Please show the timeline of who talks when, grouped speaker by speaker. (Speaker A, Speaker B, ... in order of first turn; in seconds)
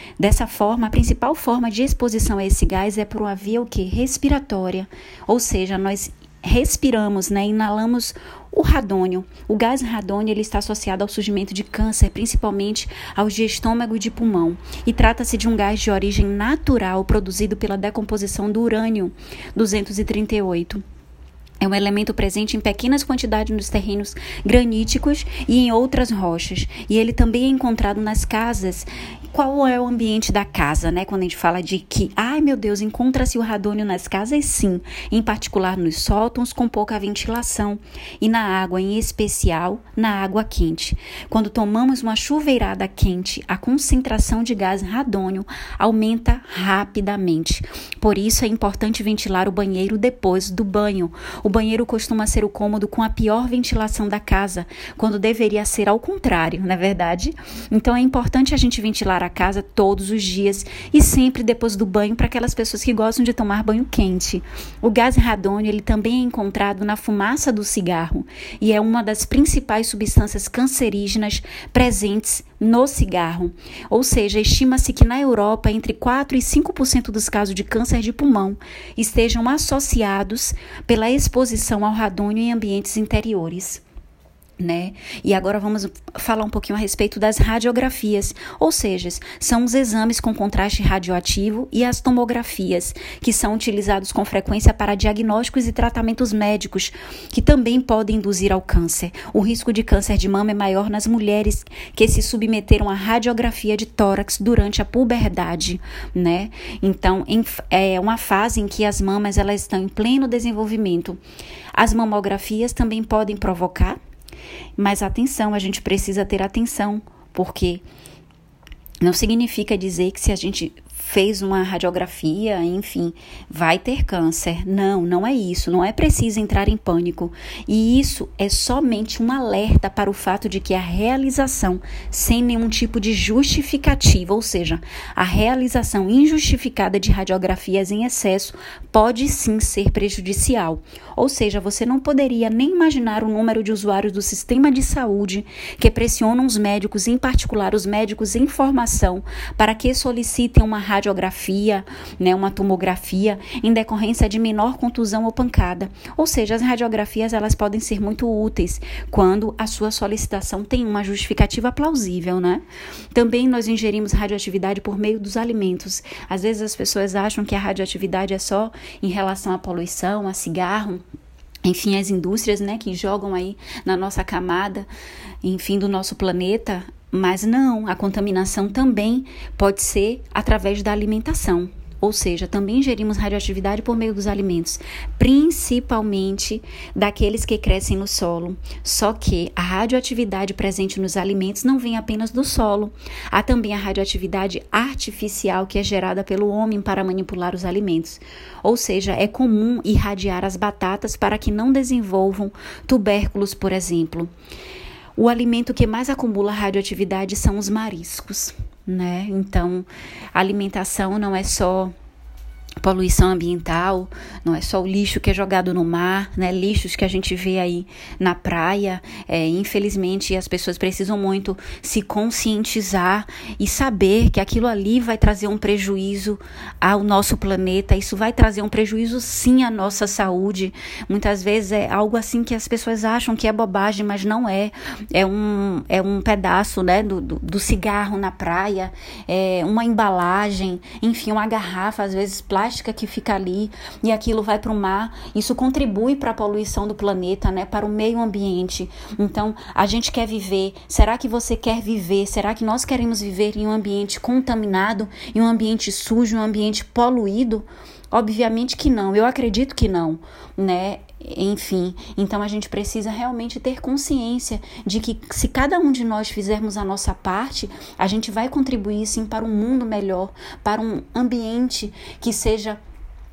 Speaker A: 0.2-20.8, 21.6-83.8, 84.6-111.2, 111.7-114.0, 114.8-117.8, 119.0-171.0, 171.6-174.9, 175.4-204.3, 205.2-211.9, 212.8-272.8